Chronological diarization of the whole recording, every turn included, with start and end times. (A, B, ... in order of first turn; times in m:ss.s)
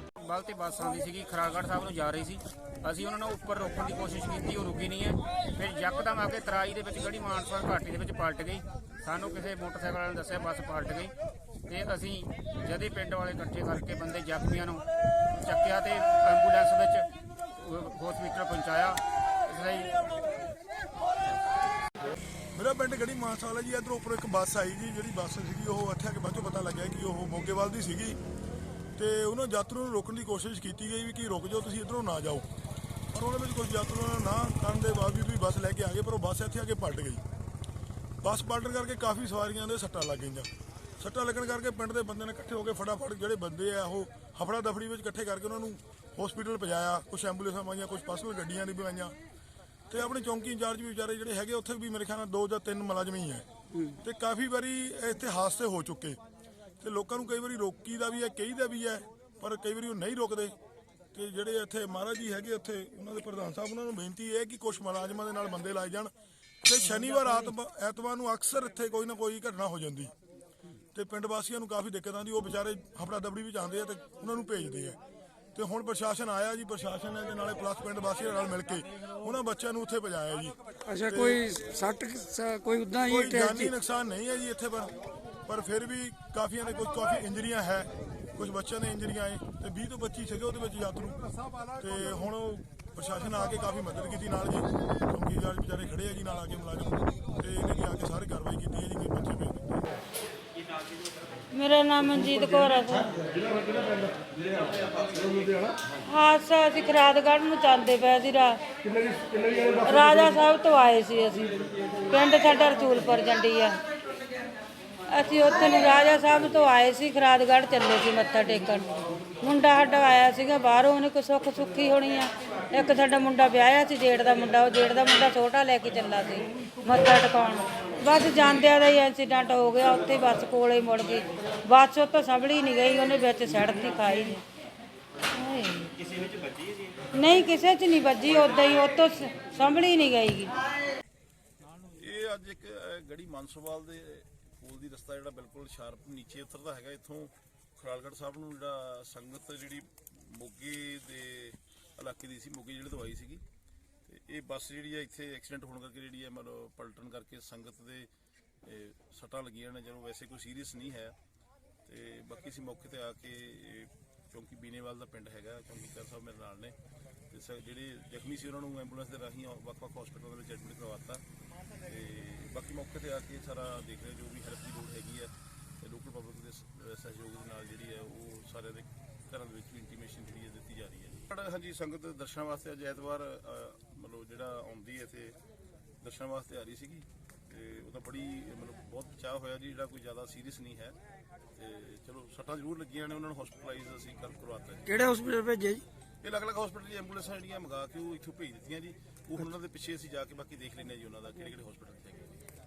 0:00.2-0:11.1 A
0:11.7-0:14.8 A
0:15.4-0:19.9 A
0:22.5-0:28.2 B
0:29.0-0:32.5 B
0:33.1-0:37.2 B
0:38.2-0:49.1 B
0:49.9-0:53.4 B
0:54.0-0:56.2 B
0:56.8-1:00.5 B
1:01.1-1:06.1 B
1:06.6-1:10.1 B
1:10.9-1:15.0 B
1:15.5-1:20.6 B
1:20.9-1:23.7 C
1:21.1-1:21.4 B
1:23.1-1:24.9 B
1:25.4-1:31.2 B
1:31.8-1:39.9 B
1:41.5-1:43.1 D
1:46.0-1:48.6 D
1:49.7-1:51.6 D
1:52.1-1:53.8 D
1:55.1-1:58.9 D
1:59.4-2:14.4 D
2:15.3-2:15.9 D
2:17.1-2:20.6 D
2:21.7-2:33.4 E
2:34.1-2:38.1 E
2:38.6-2:41.2 E
2:41.8-2:46.8 E
2:47.3-2:51.2 E
2:51.8-3:05.4 E
3:06.0-3:11.0 E
3:11.6-3:14.9 E
3:14.8-3:15.8 C
3:16.2-3:22.4 E